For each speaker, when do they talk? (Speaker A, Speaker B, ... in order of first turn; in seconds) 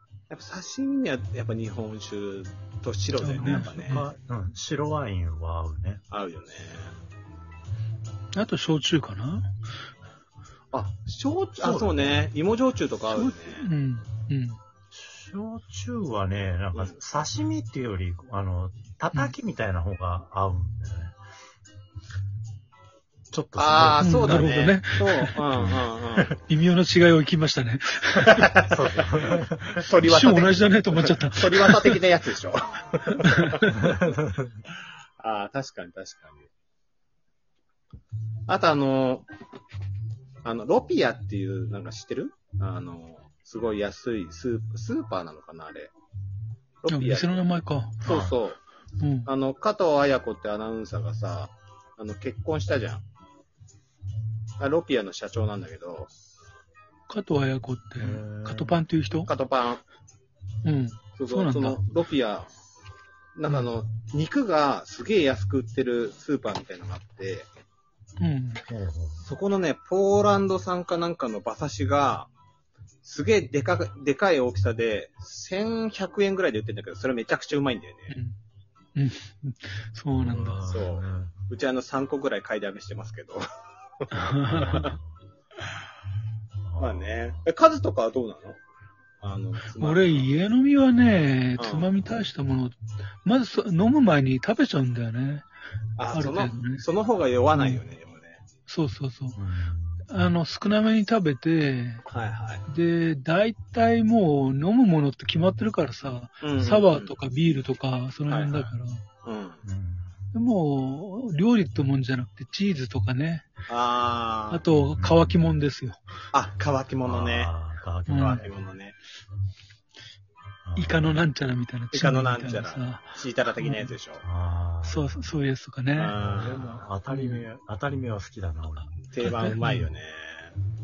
Speaker A: 0.3-4.0, 6.1-6.9, 10.7-13.7, 23.6-26.4, 28.2-34.0, 35.2-36.5, 38.5-39.3, 40.4-45.9, 46.8-48.6, 49.2-53.0, 54.6-56.1, 59.2-59.8, 61.2-62.5, 63.4-67.5, 69.2-72.3, 73.0-78.1, 80.7-83.4, 84.0-84.9, 86.8-88.6, 89.2-90.3, 91.6-91.9, 96.0-98.4, 102.1-102.6, 106.4-107.1, 108.3-108.7, 109.2-109.6, 113.7-114.6, 116.3-117.5, 118.1-119.0, 121.9-124.2, 126.0-126.8, 129.1-130.5
Speaker B: 3.2-4.0, 8.3-9.5, 13.1-14.6, 24.0-25.4, 26.4-28.4, 30.0-32.0, 33.2-33.7, 46.9-48.0, 49.0-49.3, 57.1-59.3, 60.6-61.8, 68.2-68.6, 78.1-78.3, 78.9-80.7, 84.1-84.9, 89.7-95.5, 96.1-96.8, 97.5-97.8, 98.7-99.4, 100.1-102.0, 102.7-109.0, 110.3-113.5, 114.5-116.0, 118.1-118.4, 120.8-123.9, 124.8-126.2, 127.1-127.4, 129.5-129.9
Speaker C: 3.4-6.0, 11.6-12.2, 14.9-21.2, 23.3-24.5, 25.5-26.2, 28.7-29.9, 33.7-34.6, 48.0-48.4, 58.0-58.8, 68.7-69.2, 80.2-81.3, 84.5-85.0, 86.6-87.4, 99.3-100.1, 109.6-110.1, 114.7-115.5, 117.0-118.5, 120.7-121.2, 124.2-125.2, 126.2-128.9